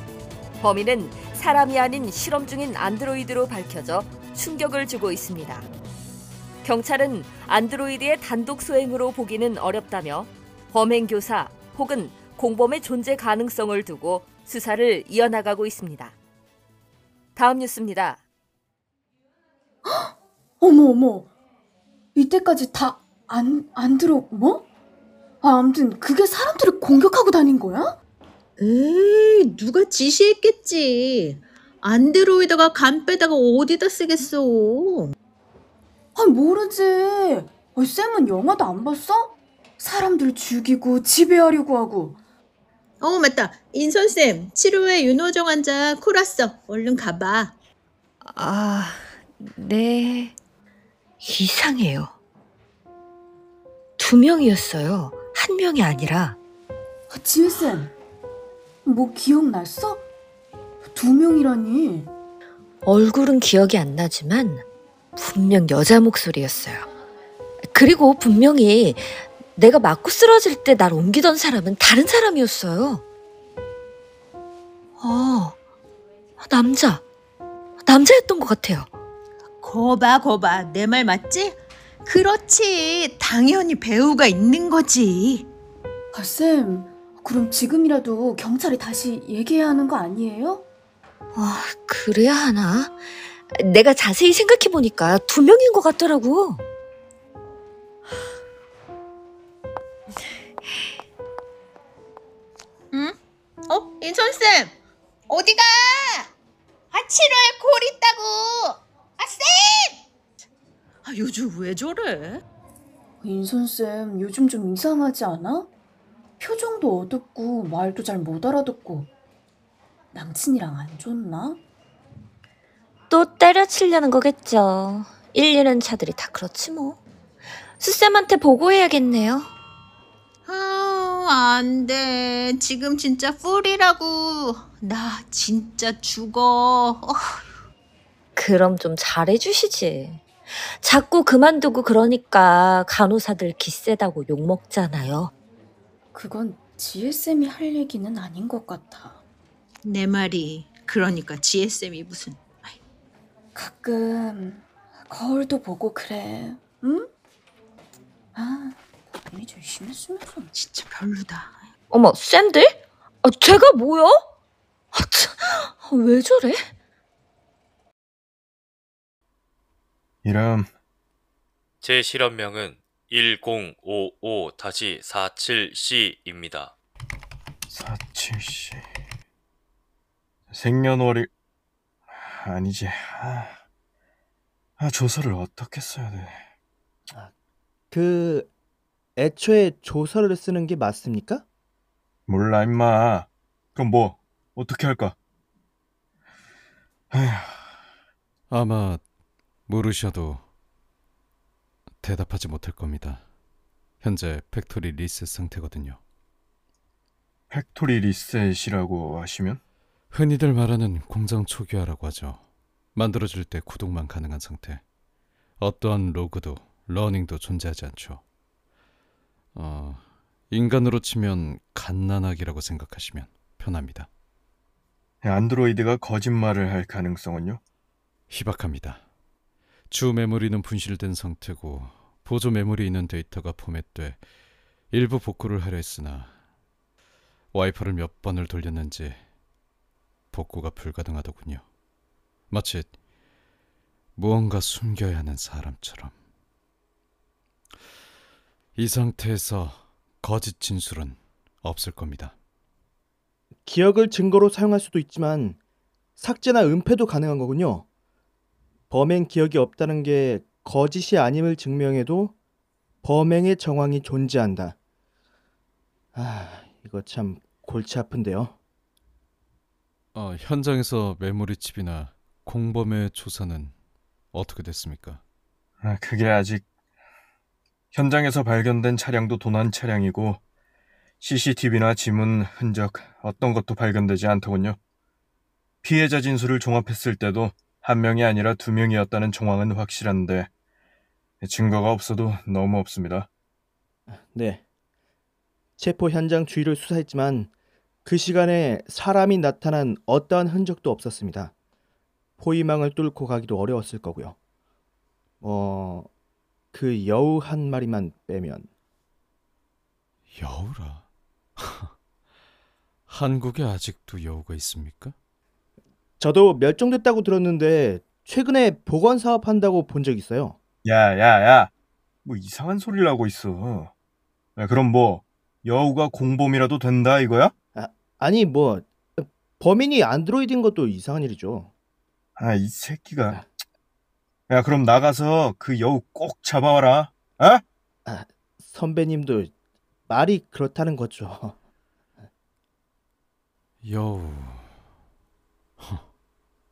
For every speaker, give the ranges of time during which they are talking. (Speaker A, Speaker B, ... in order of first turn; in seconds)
Speaker A: 0.6-5.7, 6.6-16.1, 17.4-18.2
Speaker B: 19.9-21.3, 22.1-24.7, 25.4-28.0, 36.2-42.2, 57.1-58.0, 58.9-60.0, 60.9-62.1, 86.1-90.6, 113.2-115.7, 116.4-119.1, 120.1-121.6, 146.1-149.2, 153.6-157.1, 158.4-158.8, 159.3-160.5
Speaker C: 28.6-35.1, 43.0-47.5, 79.6-85.5, 103.7-104.7, 105.3-106.3, 106.9-110.0, 111.0-112.4, 130.5-137.2, 149.8-152.8, 160.6-161.6
Speaker D: 48.3-50.3, 51.2-52.1, 54.0-56.4, 62.9-64.6, 65.2-66.8, 67.7-73.0, 75.0-75.6, 76.4-77.0, 77.8-78.9, 91.3-96.6, 123.1-127.0, 127.8-129.5, 138.4-145.3, 161.9-164.2, 164.9-166.7
Speaker E: 170.2-170.7, 177.7-178.8, 180.5-181.3, 182.1-183.6, 184.8-186.4, 192.3-195.2, 197.1-197.7, 207.5-209.6, 225.2-227.6, 275.8-276.6, 277.9-280.4, 281.2-284.8, 285.8-290.5, 291.4-293.3, 320.8-321.7, 322.2-323.9, 324.6-327.5, 332.4-333.4, 334.5-337.6
Speaker F: 171.8-176.8
Speaker G: 187.9-188.5, 189.2-191.4, 253.7-255.6, 256.2-257.9, 258.9-262.4, 263.0-264.8, 266.1-268.6, 294.1-294.6, 295.8-297.5, 298.1-301.5, 302.4-304.4, 305.4-306.1, 306.7-308.7, 316.2-320.6, 327.8-331.7, 338.1-339.5, 340.1-341.6
Speaker H: 198.5-199.0, 199.7-200.4, 202.0-203.2, 204.0-206.0, 210.1-212.4, 212.9-214.8, 215.6-218.2, 219.5-224.1, 228.3-229.0, 229.9-234.2, 234.9-236.3, 237.5-239.2, 240.3-241.6, 242.5-243.0, 244.2-246.1, 248.8-252.3, 270.1-273.7, 274.3-275.2, 310.3-311.1, 311.6-311.9, 313.1-315.2, 343.8-344.8, 345.8-346.1